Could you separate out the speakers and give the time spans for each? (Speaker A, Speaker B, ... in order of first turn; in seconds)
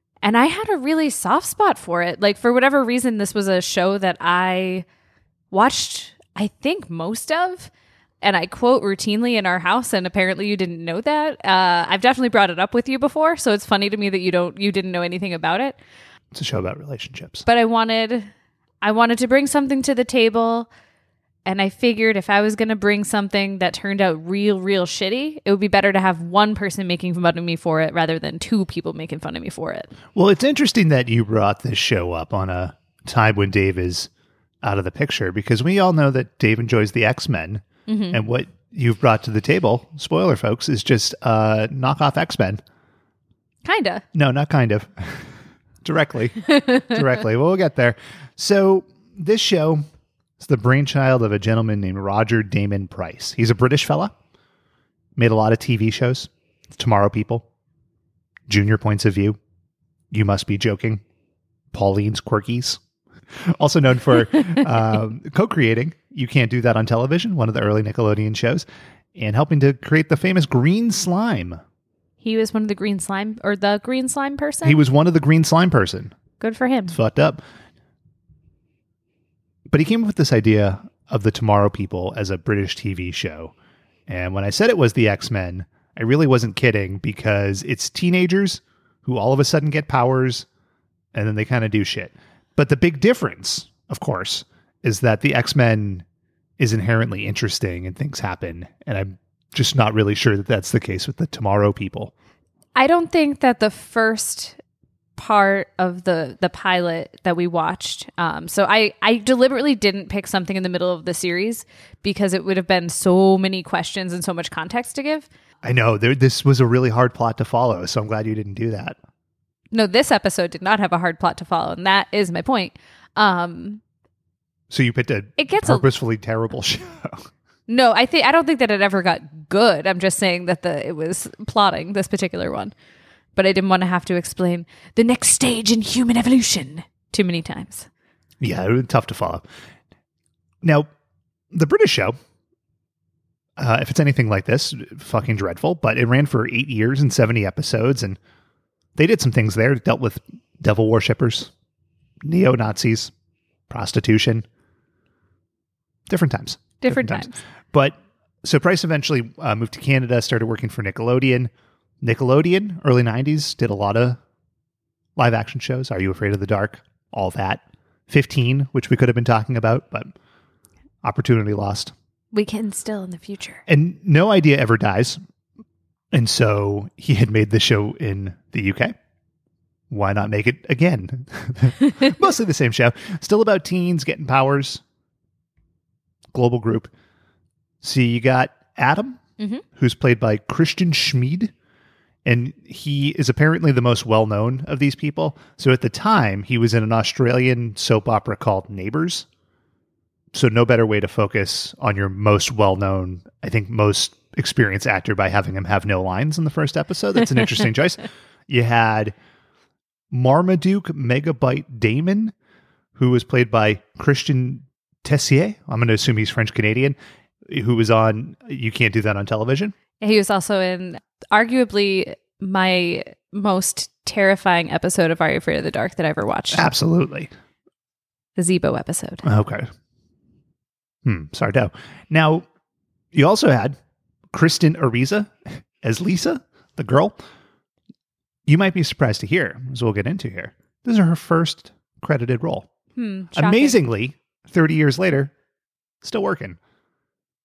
Speaker A: 0.2-4.9, 5.5-7.7, 8.2-15.8, 17.4-18.3, 18.8-20.7, 21.4-29.9, 37.9-38.2, 43.6-44.0, 46.5-47.0, 72.2-74.8, 76.4-77.0, 102.8-104.6, 105.2-115.3, 119.7-123.8, 125.4-125.9, 127.7-132.7, 133.4-137.9, 156.8-157.3, 172.3-173.6, 189.4-189.6, 220.0-226.7, 228.4-229.2, 243.0-243.8
Speaker B: 16.3-17.4, 30.1-34.1, 34.6-42.6, 44.1-45.1, 45.8-49.8, 50.4-54.1, 55.2-57.5, 58.5-59.4, 60.1-61.0, 61.7-62.8, 63.5-71.6, 74.6-76.2, 76.9-77.4, 79.7-83.5, 84.1-90.5, 91.1-96.0, 96.6-102.1, 115.6-119.0, 124.7-127.3, 138.4-139.4, 140.6-140.9, 141.5-142.2, 143.6-148.2, 149.0-151.5, 152.2-153.1, 153.7-154.5, 156.1-161.5, 162.0-164.2, 165.2-170.1, 171.0-171.9, 173.7-175.2, 176.1-178.9, 179.9-184.8, 186.3-186.9, 187.8-189.2, 189.8-191.5, 192.2-199.3, 200.3-209.2, 210.1-212.3, 213.0-217.0, 217.5-219.8, 226.5-227.3, 229.2-229.7, 231.1-232.4, 233.1-233.8, 234.3-237.2, 238.5-242.7, 243.3-245.3, 246.0-246.6